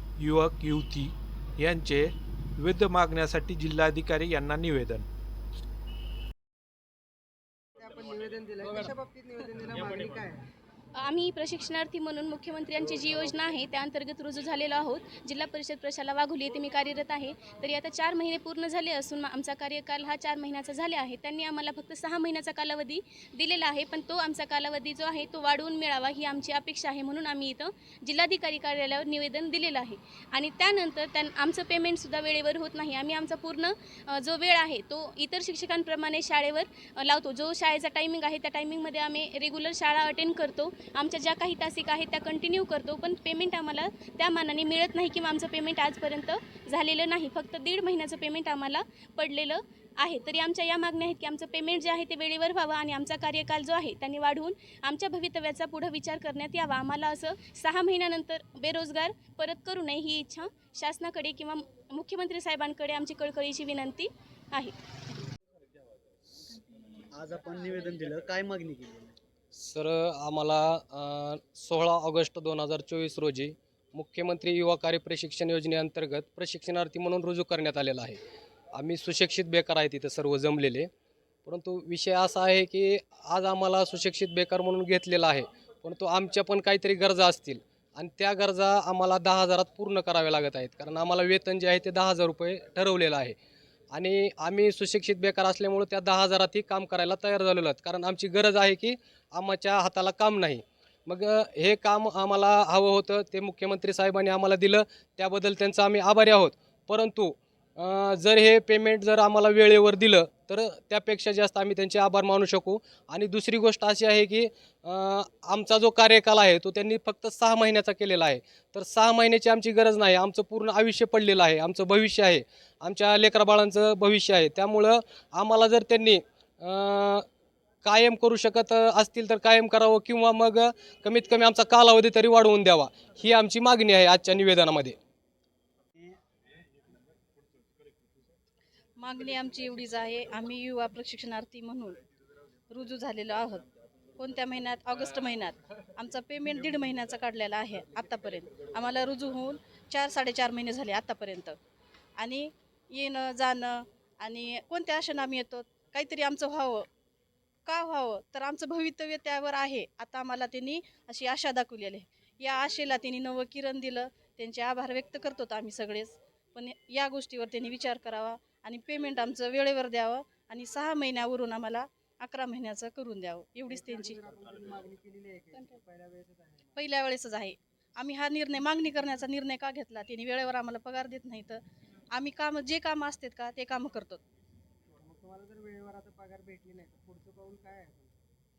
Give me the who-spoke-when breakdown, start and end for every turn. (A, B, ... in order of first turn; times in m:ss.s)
0:00.2-0:05.0 A
0:07.8-0:10.5 B
0:11.0-1:04.7 C
1:07.1-1:09.1 D
1:09.5-1:18.2 E
1:18.7-1:20.9 E
1:21.4-1:33.4 E
1:33.9-2:07.2 E
2:07.8-2:15.0 E
2:19.0-2:22.0 F
2:22.7-2:23.6 F
2:24.2-2:31.6 F
2:32.2-2:36.9 F
2:37.6-2:54.2 F
2:53.7-2:56.7 B
2:56.8-3:01.6 F
3:02.1-3:04.2 F
3:05.0-3:08.1 B